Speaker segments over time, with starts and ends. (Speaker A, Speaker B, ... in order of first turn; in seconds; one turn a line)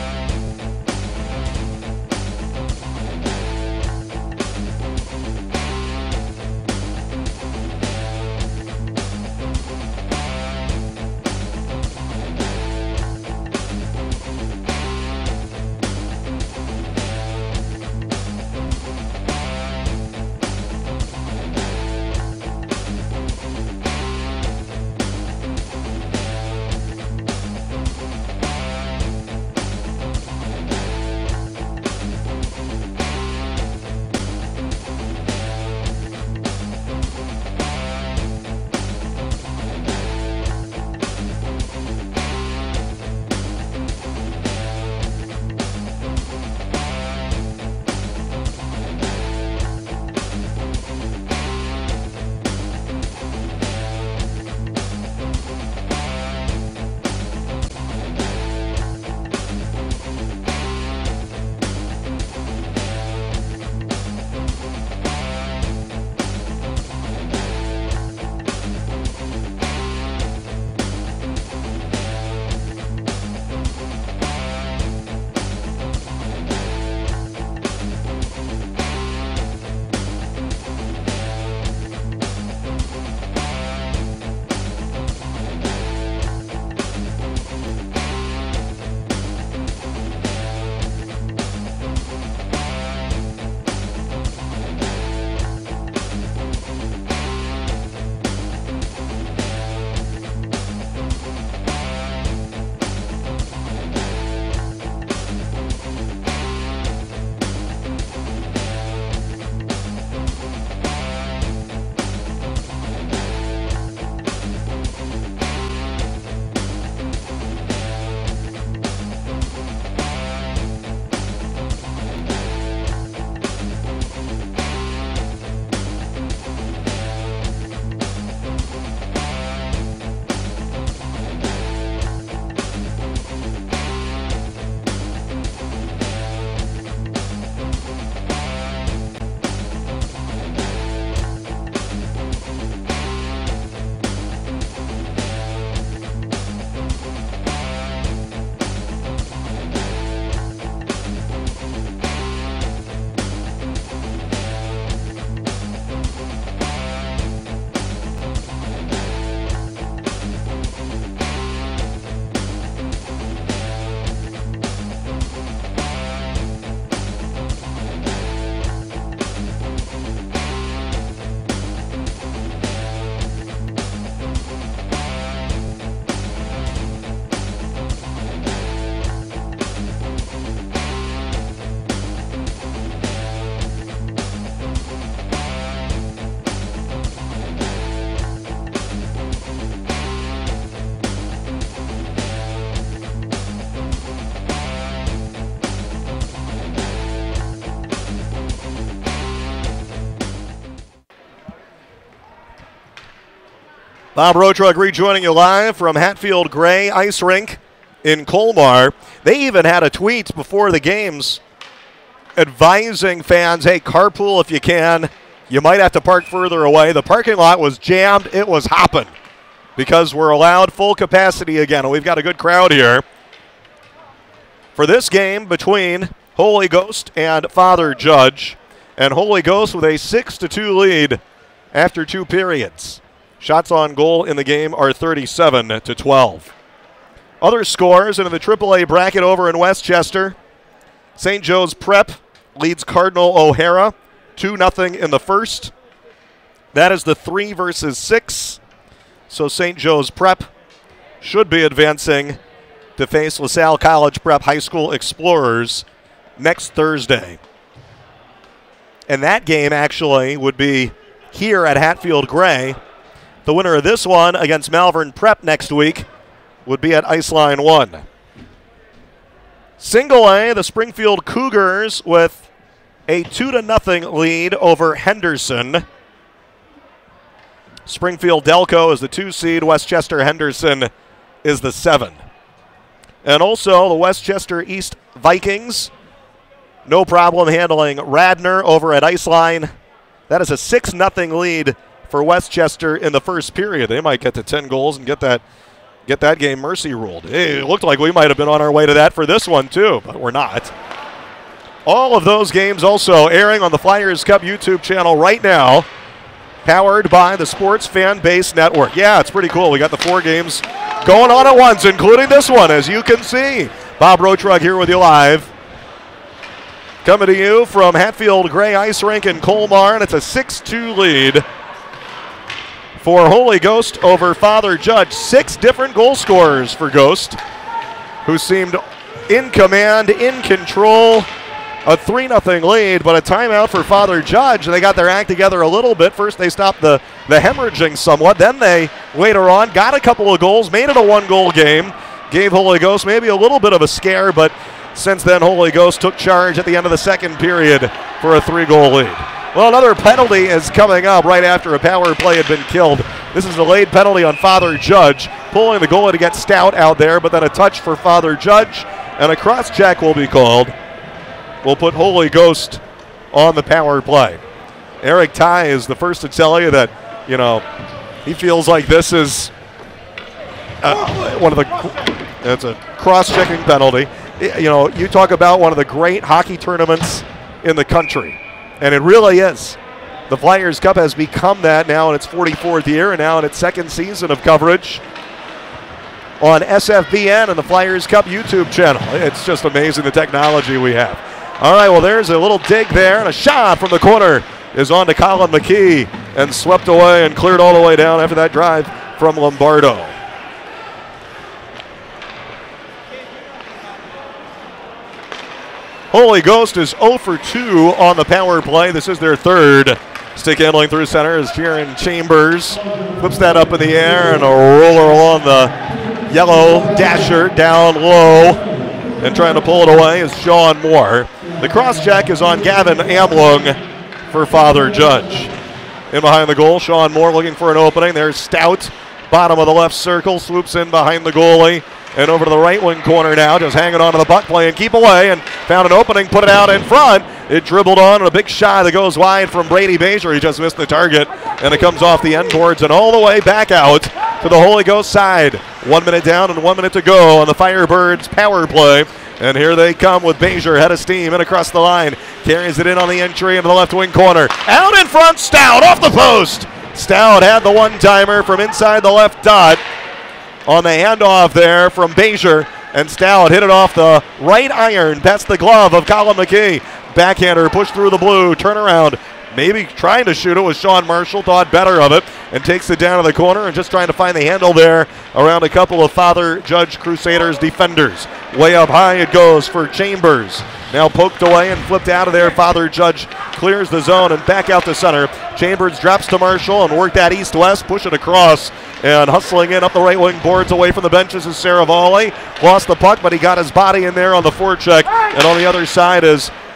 Speaker A: 204.2-211.4
Speaker A: 212.4-219.1
Speaker A: 219.8-223.0
Speaker A: 224.7-231.2
Speaker A: 231.7-236.5
Speaker A: 237.4-240.4
Speaker A: 241.2-245.7
Speaker A: 246.7-248.6
Speaker A: 249.3-250.5
Speaker A: 251.2-252.4
Speaker A: 253.0-255.8
Speaker A: 256.4-257.4
Speaker A: 259.1-262.8
Speaker A: 263.4-266.1
Speaker A: 266.6-268.1
Speaker A: 269.8-272.4
Speaker A: 273.1-275.9
Speaker A: 277.9-280.9
Speaker A: 281.4-282.2
Speaker A: 283.2-285.9
Speaker A: 286.9-289.7
Speaker A: 290.3-295.4
Speaker A: 296.1-300.7
Speaker A: 301.9-305.9
Speaker A: 306.6-315.5
Speaker A: 317.0-321.4
Speaker A: 323.0-327.4
Speaker A: 328.2-331.3
Speaker A: 331.9-360.7
Speaker A: 361.6-362.8
Speaker A: 363.3-364.4
Speaker A: 365.0-367.6
Speaker A: 368.2-369.5
Speaker A: 370.8-379.8
Speaker A: 380.3-385.0
Speaker A: 386.4-400.1
Speaker A: 406.1-415.7
Speaker A: 416.3-418.6
Speaker A: 419.2-423.8
Speaker A: 424.3-425.5
Speaker A: 426.1-459.8
Speaker A: 460.7-496.5